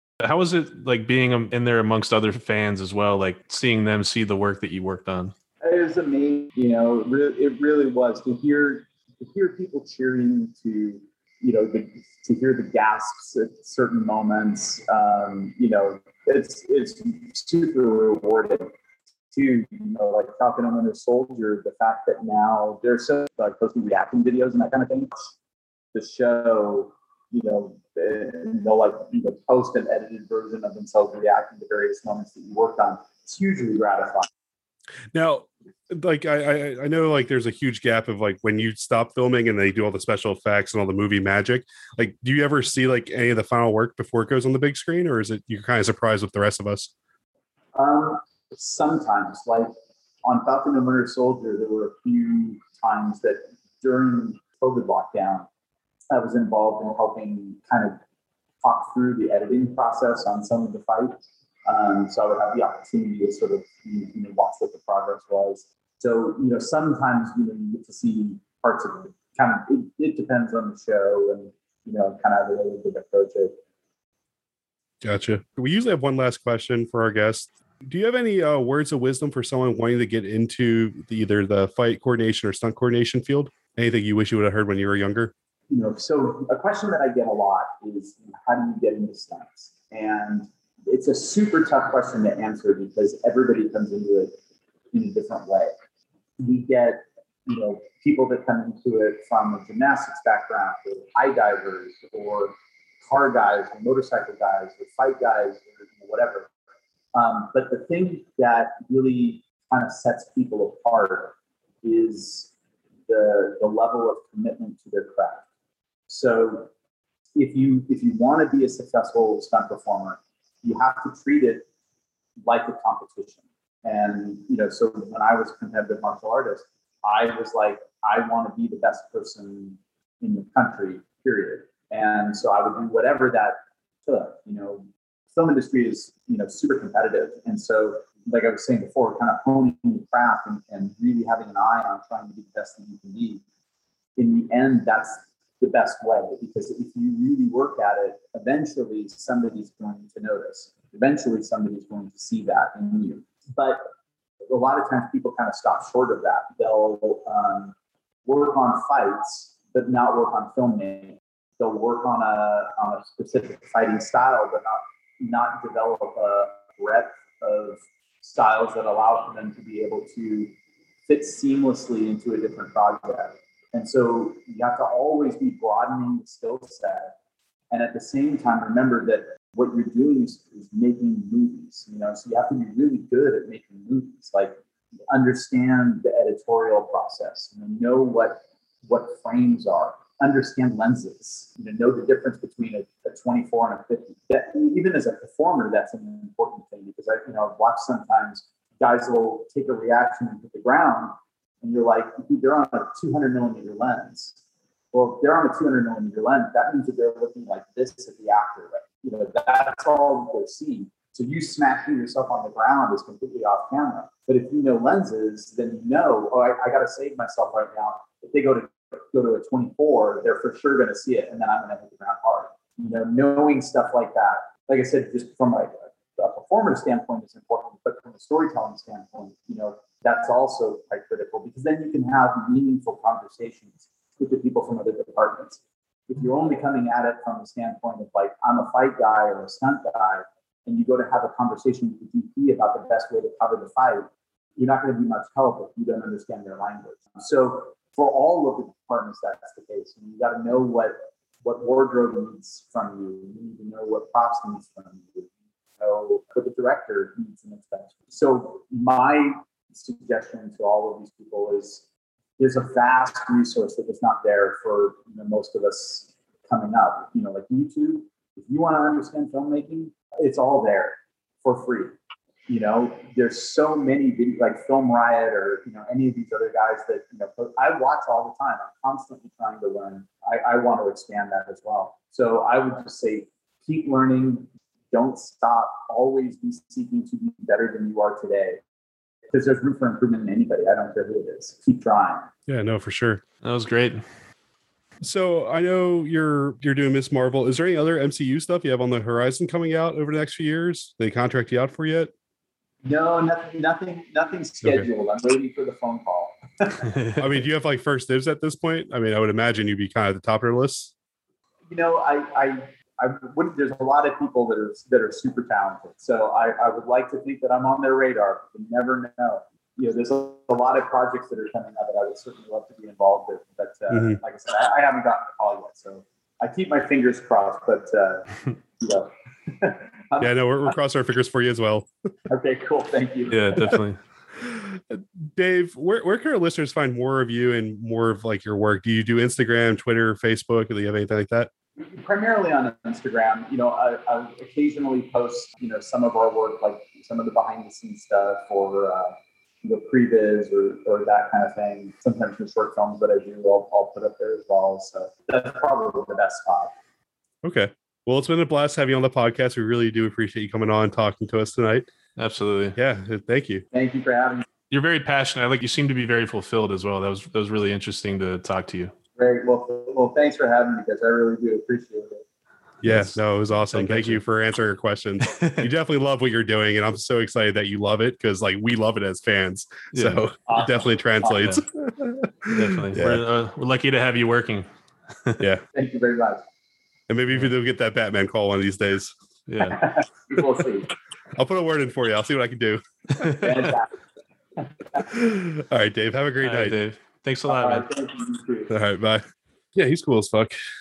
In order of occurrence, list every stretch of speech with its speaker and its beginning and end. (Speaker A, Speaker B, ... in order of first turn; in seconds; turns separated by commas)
Speaker A: 0.2-5.3, Speaker B: 5.6-18.7, Speaker B: 19.3-25.3, Speaker B: 25.9-34.3, Speaker C: 35.1-46.9, Speaker B: 47.7-49.7, Speaker B: 50.2-55.5, Speaker B: 56.1-58.0, Speaker B: 58.6-73.5, Speaker C: 75.0-85.3, Speaker B: 85.7-94.4, Speaker B: 94.9-95.7, Speaker B: 96.4-106.5, Speaker B: 107.1-112.5, Speaker B: 113.1-115.5, Speaker B: 116.1-116.7, Speaker B: 117.3-121.7, Speaker B: 122.5-143.4, Speaker B: 144.2-153.9, Speaker B: 154.5-170.5, Speaker B: 171.1-177.1, Speaker B: 177.7-184.6, Speaker B: 185.1-204.4, Speaker B: 204.9-261.9, Speaker B: 262.4-271.9, Speaker B: 272.5-288.6, Speaker B: 289.3-292.3, Speaker C: 292.5-293.2, Speaker A: 293.4-294.0, Speaker C: 295.0-302.1, Speaker B: 302.8-306.9, Speaker C: 307.2-310.9, Speaker B: 311.7-330.7, Speaker C: 323.9-324.2, Speaker C: 330.2-331.9, Speaker B: 332.3-333.8, Speaker A: 333.3-334.0, Speaker C: 334.4-341.5, Speaker B: 341.8-356.7, Speaker C: 357.4-361.9, Speaker A: 362.1-362.8, Speaker C: 362.8-363.6, Speaker B: 363.7-364.5, Speaker A: 364.7-368.9, Speaker B: 369.2-372.2, Speaker A: 372.8-374.2, Speaker C: 372.8-383.2, Speaker A: 375.2-375.7, Speaker A: 379.9-380.3, Speaker B: 380.4-381.5, Speaker A: 382.5-384.7, Speaker B: 385.7-386.4, Speaker C: 387.1-389.1, Speaker A: 389.5-389.8, Speaker B: 389.6-390.9, Speaker C: 391.4-392.8, Speaker A: 393.1-393.6, Speaker B: 393.3-393.9, Speaker B: 394.6-395.1, Speaker C: 395.0-396.8, Speaker A: 396.4-397.9, Speaker B: 397.5-398.7, Speaker C: 398.7-400.6